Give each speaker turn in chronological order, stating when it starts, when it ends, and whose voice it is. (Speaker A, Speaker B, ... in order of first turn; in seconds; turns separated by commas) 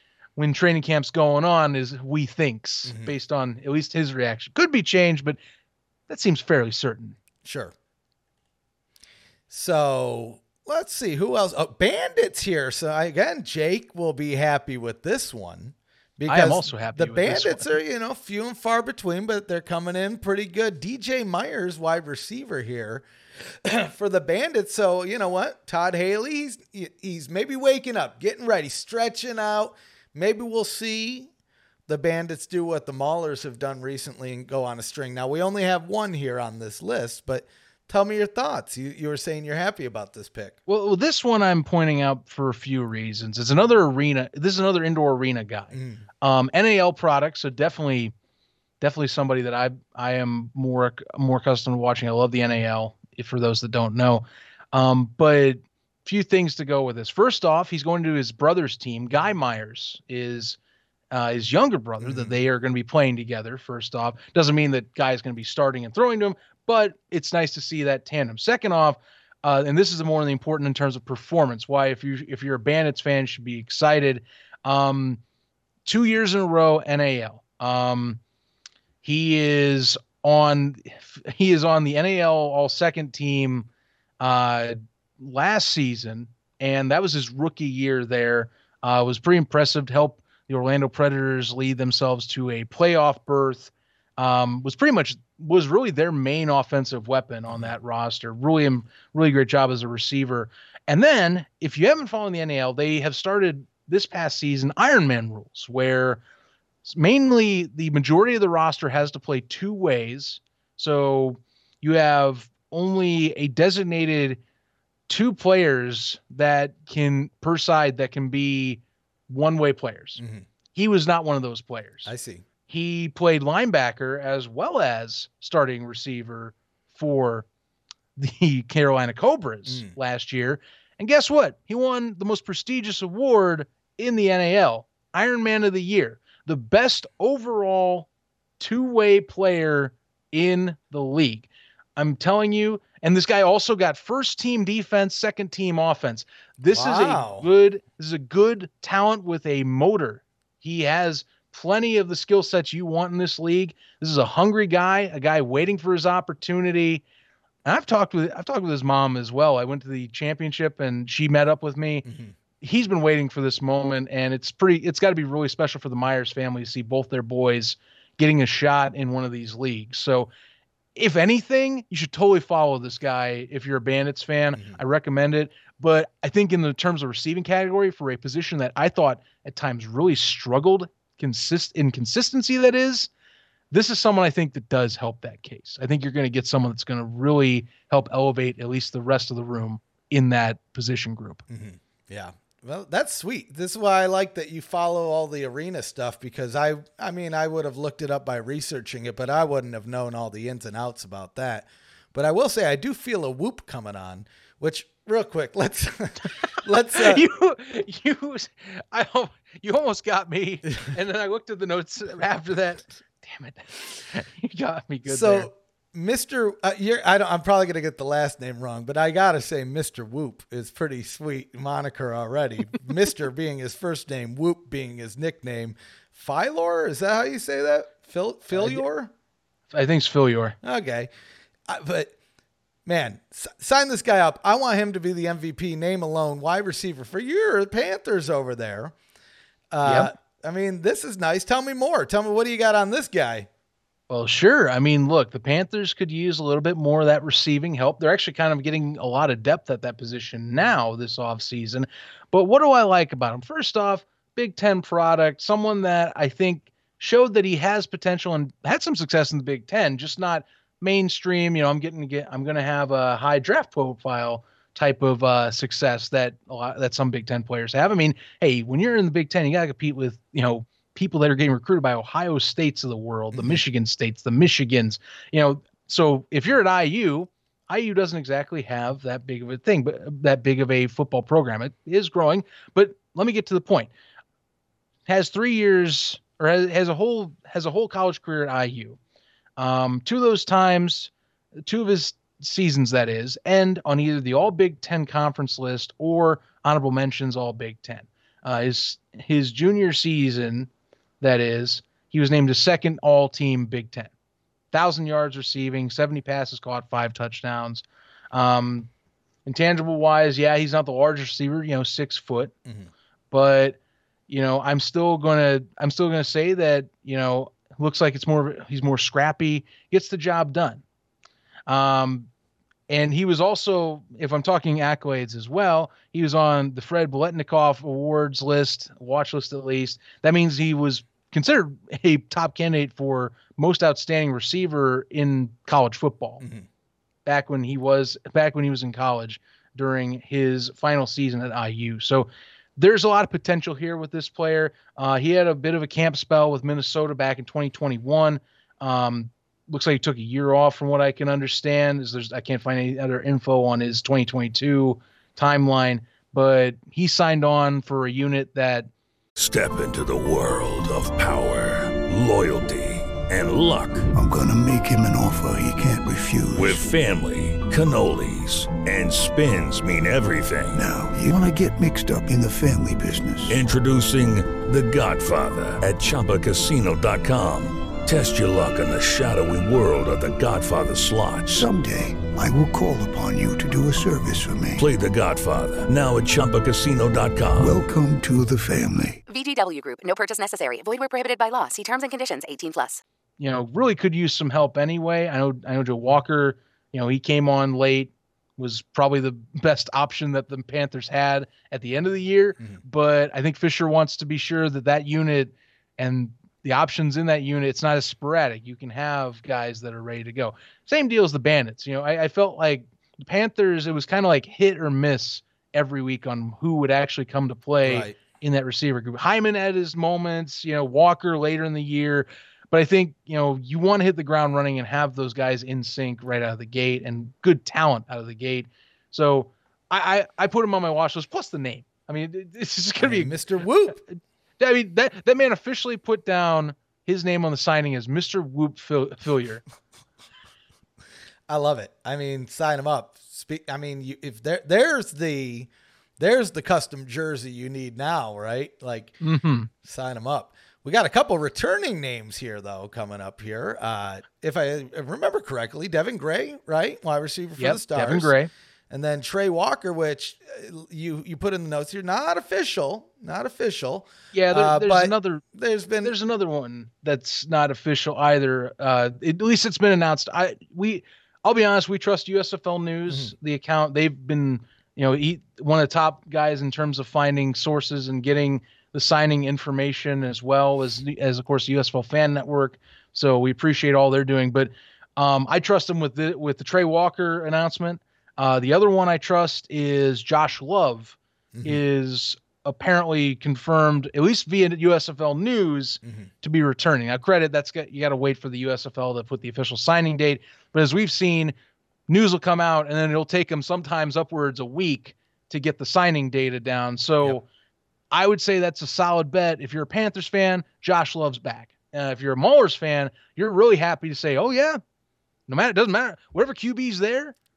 Speaker A: 0.4-5.4, Speaker B: 2.8-3.1, Speaker A: 6.1-7.2, Speaker B: 7.4-7.7, Speaker B: 9.5-23.1, Speaker A: 16.3-17.8, Speaker B: 23.6-31.3, Speaker B: 31.9-40.6, Speaker A: 40.7-48.1, Speaker B: 45.7-46.0, Speaker A: 48.8-60.6, Speaker A: 61.1-75.2, Speaker B: 62.0-62.3, Speaker A: 75.8-78.2, Speaker A: 79.0-83.7, Speaker A: 84.2-106.2, Speaker A: 106.8-114.4, Speaker A: 115.1-120.2, Speaker B: 120.2-120.5, Speaker A: 120.7-122.1, Speaker B: 122.0-122.4, Speaker A: 122.7-127.5, Speaker A: 128.2-138.1, Speaker B: 129.7-129.9, Speaker A: 138.6-157.0, Speaker B: 146.7-147.4, Speaker A: 157.6-162.1, Speaker B: 162.0-162.3, Speaker A: 162.6-170.3, Speaker A: 170.9-183.1, Speaker B: 174.5-174.8, Speaker A: 183.7-191.4, Speaker B: 191.5-207.2, Speaker A: 206.7-215.5, Speaker B: 215.1-229.1, Speaker A: 228.5-228.8, Speaker A: 229.7-230.6, Speaker B: 230.6-231.1, Speaker B: 231.7-232.1, Speaker B: 232.8-238.9, Speaker B: 239.7-243.5, Speaker A: 239.8-240.1, Speaker A: 244.1-283.9, Speaker B: 273.3-273.6, Speaker A: 285.1-289.0, Speaker A: 289.6-300.7, Speaker A: 301.2-304.1, Speaker A: 304.7-308.9, Speaker A: 309.4-312.5, Speaker A: 313.3-313.8, Speaker A: 314.3-320.8, Speaker A: 321.7-322.3, Speaker A: 322.9-336.4, Speaker A: 337.2-358.9, Speaker C: 359.4-364.1, Speaker D: 364.1-366.8, Speaker C: 366.5-370.8, Speaker D: 370.8-373.6, Speaker C: 373.5-381.7, Speaker D: 381.5-384.8, Speaker C: 384.8-387.8, Speaker D: 387.6-389.2, Speaker E: 389.3-393.0, Speaker A: 393.4-433.4, Speaker B: 417.8-418.2, Speaker B: 433.0-434.0, Speaker A: 434.6-439.6, Speaker B: 441.5-449.2, Speaker A: 449.2-449.7, Speaker B: 449.8-458.3, Speaker A: 457.6-458.5, Speaker B: 458.9-466.1, Speaker A: 464.3-465.4, Speaker A: 466.0-501.5, Speaker B: 491.5-491.8, Speaker A: 502.1-507.4, Speaker A: 508.1-514.8, Speaker A: 515.5-517.3